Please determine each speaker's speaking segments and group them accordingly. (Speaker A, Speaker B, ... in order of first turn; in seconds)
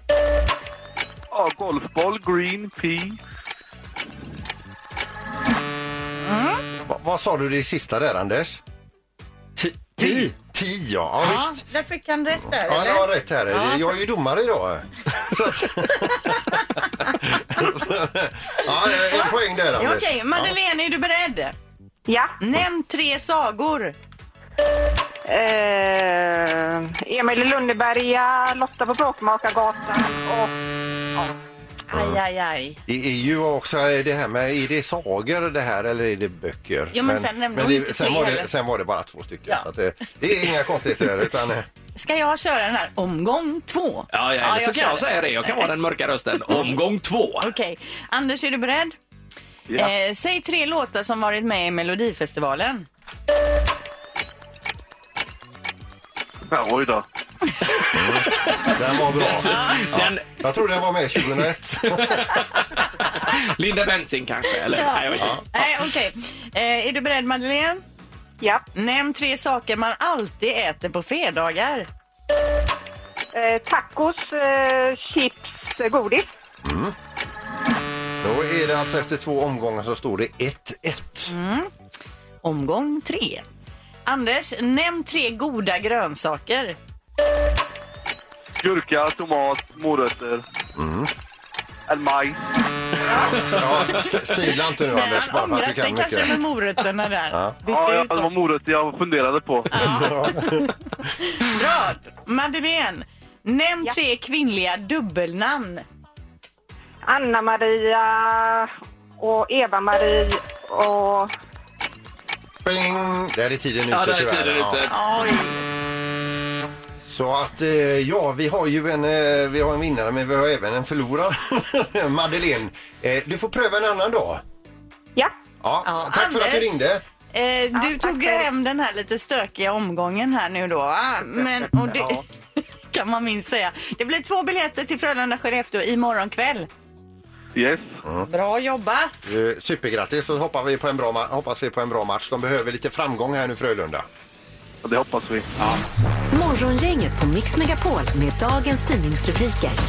Speaker A: 1.3-3.2, 56.5-57.0, 88.6-90.4, 91.9-92.5, 97.7-99.7, 131.9-132.2, 137.5-137.9, 144.8-145.5
Speaker B: 6.2-6.6, 11.2-13.9, 18.9-21.5, 22.4-23.9, 31.9-32.8, 36.9-38.5, 42.0-45.6, 47.4-48.9, 49.7-52.9, 65.5-67.8, 68.7-71.9, 81.3-81.7, 82.4-83.4, 84.1-86.8, 93.0-93.6, 94.8-98.3, 99.7-100.7, 101.2-105.8, 114.9-115.6, 125.8-126.8, 127.3-132.2, 132.9-136.7, 138.2-139.2
Speaker C: 6.8-8.6, 10.0-11.6, 12.6-20.5, 31.9-32.2, 32.9-41.7, 57.9-62.4, 65.2-65.4, 76.6-76.9, 78.2-81.3, 90.8-91.1, 93.2-96.4, 97.3-97.6, 99.7-100.7, 112.6-114.9, 117.0-124.4, 125.6-127.0, 139.2-144.1
Speaker D: 9.6-10.3, 44.1-47.5, 58.0-60.2, 61.1-65.7, 113.9-115.0
Speaker E: 22.1-22.4, 25.2-30.6, 68.4-68.7, 73.3-76.3, 107.0-111.3, 127.8-128.5
Speaker F: 146.3-149.8